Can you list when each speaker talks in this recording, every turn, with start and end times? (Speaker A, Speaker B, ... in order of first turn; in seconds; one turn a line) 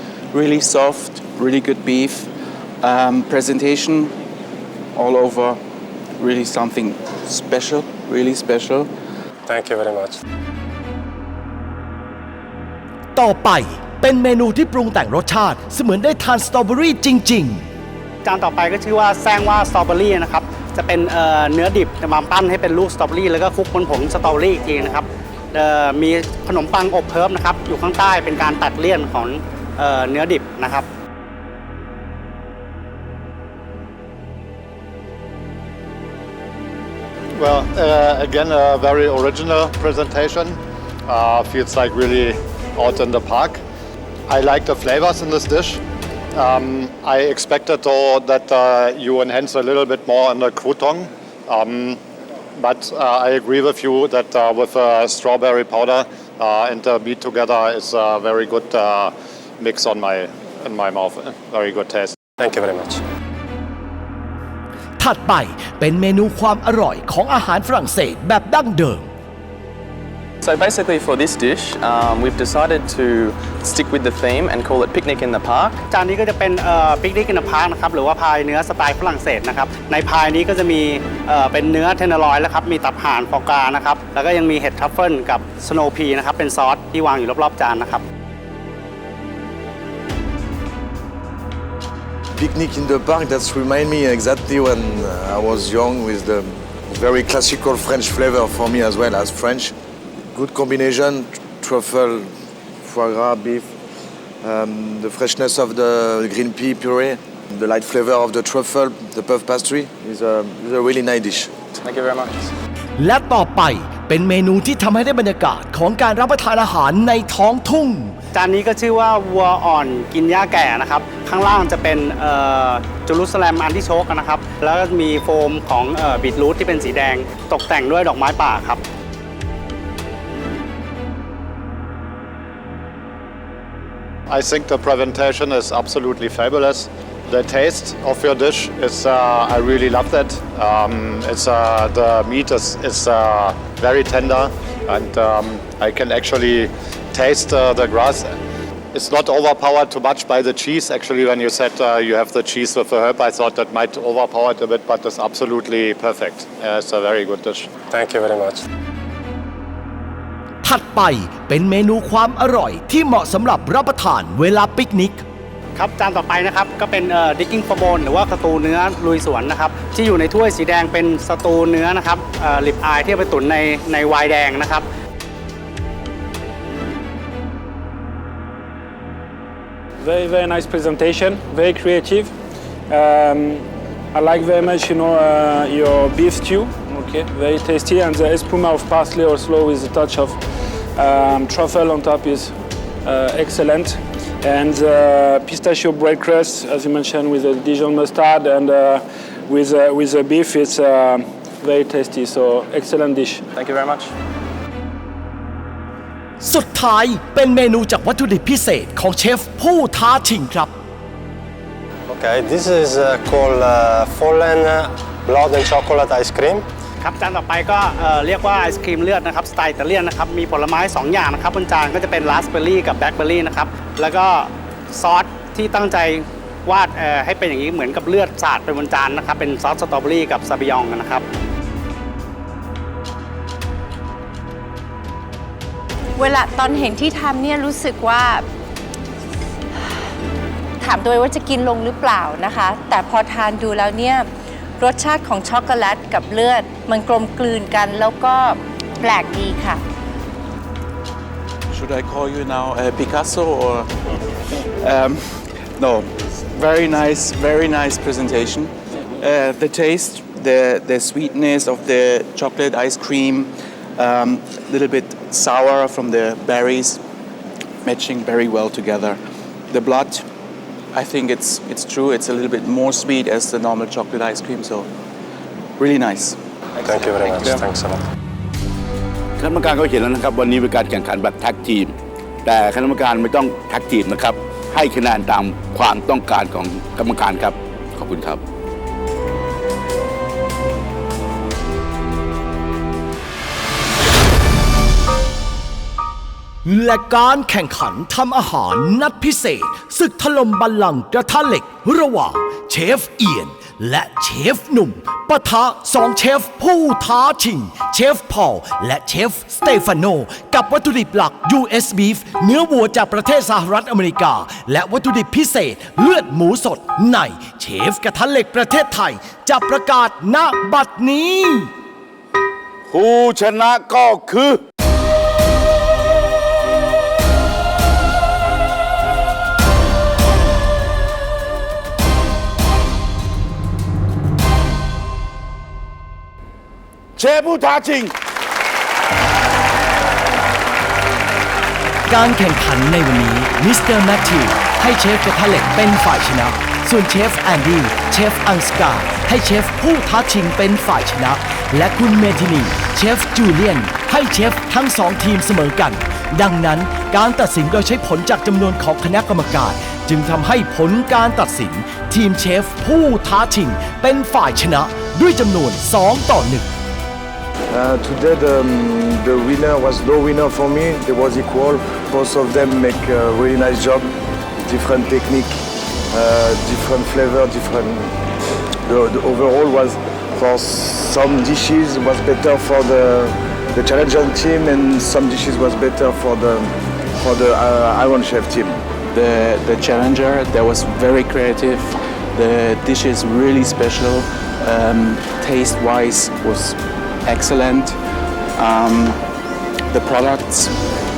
Speaker A: 0.3-2.3
Speaker A: 2.8-4.2
Speaker A: 5.0-5.6
Speaker A: 6.2-8.9
Speaker B: 9.5-10.2
Speaker C: 13.2-17.6
Speaker D: 18.2-30.9
Speaker E: 37.4-43.6
Speaker E: 44.3-45.8
Speaker E: 46.3-52.0
Speaker E: 52.6-62.2
Speaker B: 62.4-63.0
Speaker C: 65.0-69.0
Speaker F: 70.4-75.8
Speaker D: 75.9-88.0
Speaker G: 92.3-99.8
Speaker G: 100.3-102.3
Speaker G: 102.8-103.7
Speaker G: 104.4-111.5
Speaker F: 111.8-112.4
Speaker C: 113.0-118.2
Speaker D: 118.3-128.8
Speaker E: 134.3-148.3
Speaker E: 148.9-157.7
Speaker B: 157.9-158.6
Speaker C: 160.6-165.2
Speaker D: 165.8-174.8
Speaker H: 180.0-182.3
Speaker H: 182.9-190.4
Speaker H: 191.0-203.4
Speaker F: 203.6-204.1
Speaker C: 206.4-210.7
Speaker B: 212.1-216.7
Speaker D: 217.0-231.2
Speaker I: 236.2-238.4
Speaker I: 240.8-244.3
Speaker I: 244.8-249.8
Speaker A: 251.7-253.9
Speaker A: 254.6-267.0
Speaker A: 267.8-269.2
Speaker A: 269.7-270.3
Speaker A: 270.9-274.9
Speaker A: 275.8-276.4
Speaker B: 276.8-278.0
Speaker J: 279.4-281.9
Speaker J: 282.4-288.4
Speaker C: 296.7-321.7
Speaker J: 322.9-324.6
Speaker J: 337.2-338.1
Speaker C: 342.1-366.7
Speaker G: 367.7-374.1
Speaker G: 374.6-378.2
Speaker G: 378.9-388.8
Speaker A: 389.1-398.0
Speaker A: 398.6-399.2
Speaker A: 399.9-400.7